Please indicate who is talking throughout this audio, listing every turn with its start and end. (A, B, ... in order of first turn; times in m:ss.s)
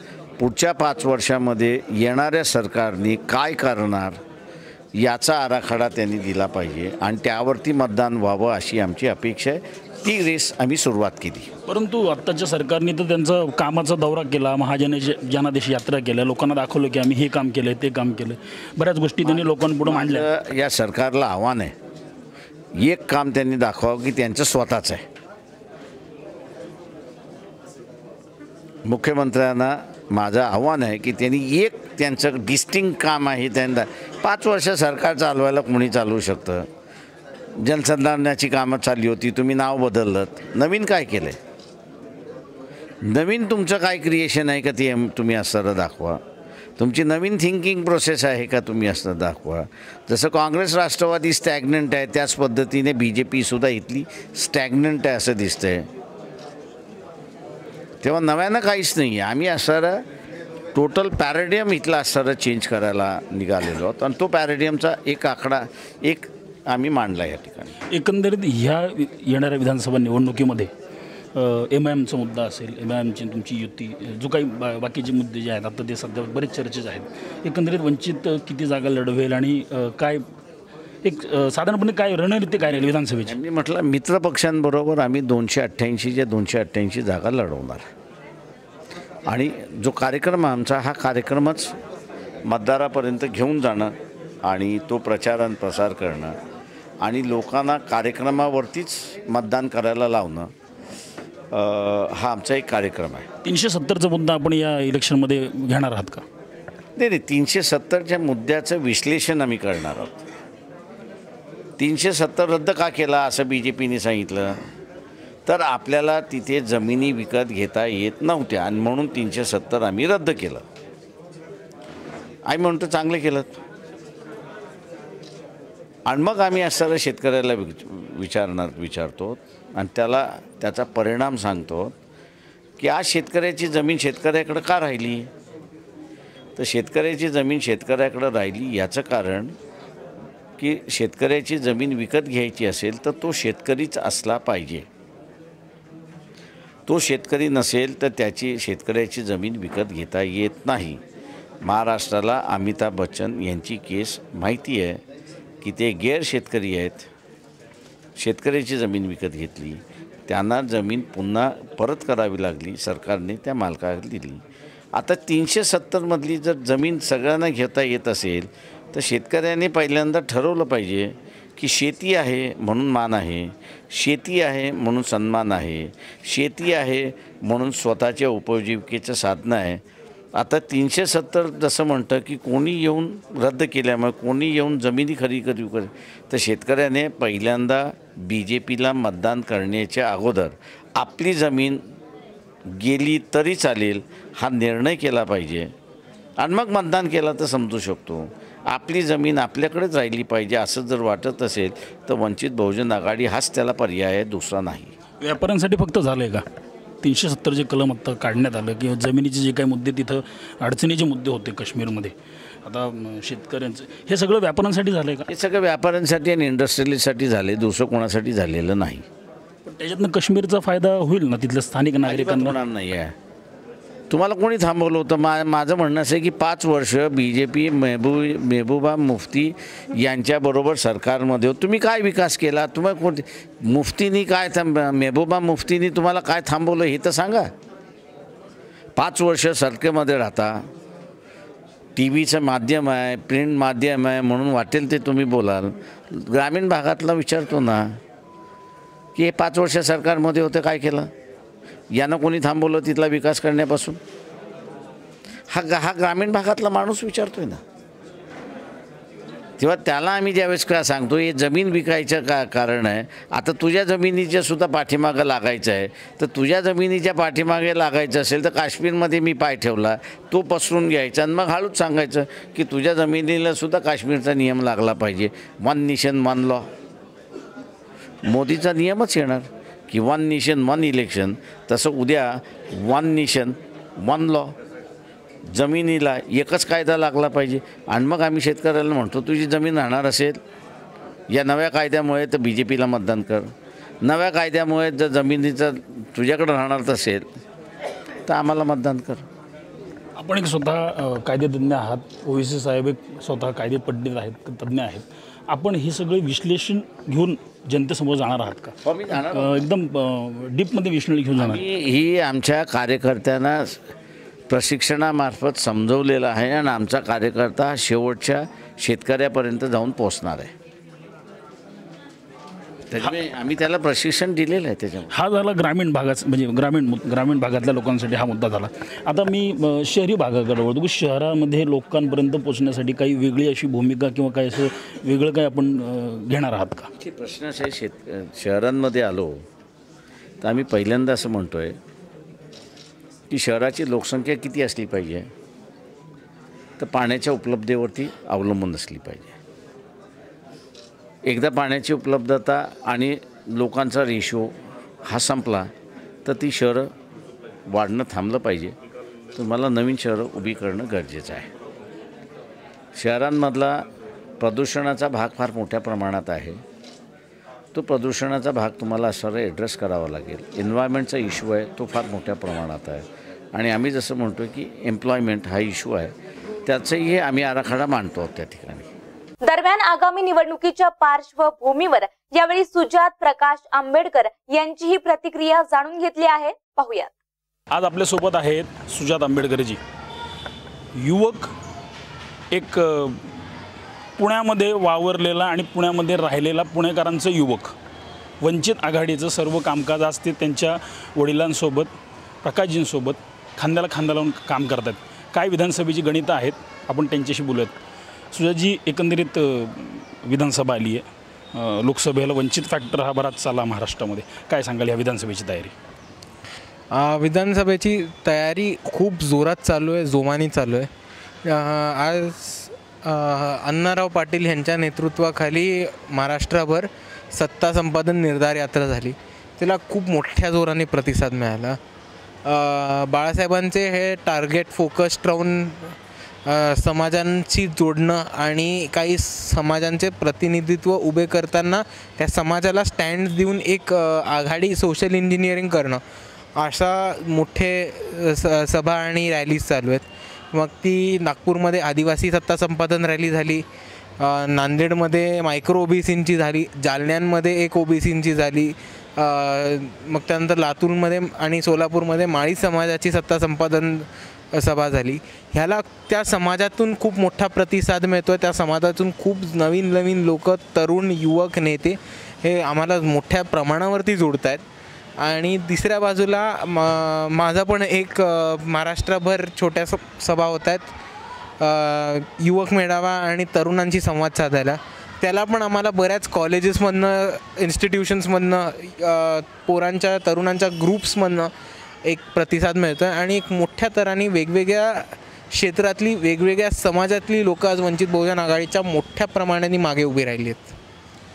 0:00.4-0:04.2 A
0:05.0-0:11.5 A
0:11.7-0:20.3 B
0:19.3-0:21.7 A
0:22.8-0:25.0 A
0:28.9-0:36.7 A
0:37.6-0:41.4 A
0:43.0-0:46.2 A
0:46.8-0:55.9 A
0:58.0-1:00.0 A
1:00.8-1:07.8 A
1:07.9-1:10.7 B
1:11.4-1:20.2 B
1:21.0-1:23.4 B
1:23.2-1:27.8 A
1:29.3-1:31.8 A
1:32.4-1:36.4 A
1:37.0-1:40.5 A
1:41.5-1:43.3 A
1:43.4-1:46.2 B
1:47.0-1:50.2 A
1:51.8-1:54.6 A
1:55.5-2:00.6 A
2:02.5-2:03.6 A
2:06.1-2:11.9 A
2:12.8-2:15.3 A
2:16.6-2:19.6 A
2:20.6-2:24.9 A
2:26.9-2:31.0 A
2:31.6-2:35.0 A
2:35.6-2:37.1 A
2:38.2-2:44.4 A
2:44.9-2:59.8 A
3:00.4-3:11.8 A
3:12.7-3:15.7 A
3:16.4-3:24.9 A
3:25.2-3:26.4 B
3:27.0-3:35.3 B
3:35.3-3:39.0 A
3:39.6-3:42.6 B
3:42.0-3:43.1 A
3:44.1-3:57.5 A
3:59.0-4:00.6 A
4:02.0-4:08.0 A
4:09.2-4:11.1 A
4:11.9-4:14.0 A
4:15.5-4:17.6 A
4:19.6-4:36.7 A
4:38.2-4:44.5 A
4:45.5-4:50.4 A
4:51.3-4:57.3 A
4:58.3-4:59.2 A
5:00.2-5:11.6 B
5:08.8-5:09.6 A
5:11.4-5:13.8 A
5:14.5-5:20.5 A
5:22.9-5:25.1 A
5:25.1-5:36.9 B
5:37.0-5:39.4 A
5:40.4-5:41.8 A
5:43.3-5:45.3 A
5:46.8-5:49.3 A
5:51.2-5:54.5 A
5:55.1-5:55.7 A
5:56.2-5:56.9 A
5:57.7-5:58.8 A
5:59.4-6:01.5 A
6:03.0-6:03.9 A
6:04.4-6:06.6 A
6:07.7-6:16.1 A
6:16.6-6:18.9 A
6:19.4-6:27.1 C
6:27.7-6:29.8 B
6:31.0-6:31.5 B
6:32.5-6:33.3 B
6:34.2-6:37.7 B
6:38.4-6:47.8 B
6:48.3-6:55.7 B
6:56.9-7:00.9 D
7:01.4-7:11.8 D
7:12.4-7:26.0 D
7:26.6-7:33.6 D
7:34.2-7:54.6 D
7:55.2-8:00.9 D
8:01.6-8:11.5 D
8:12.0-8:20.8 D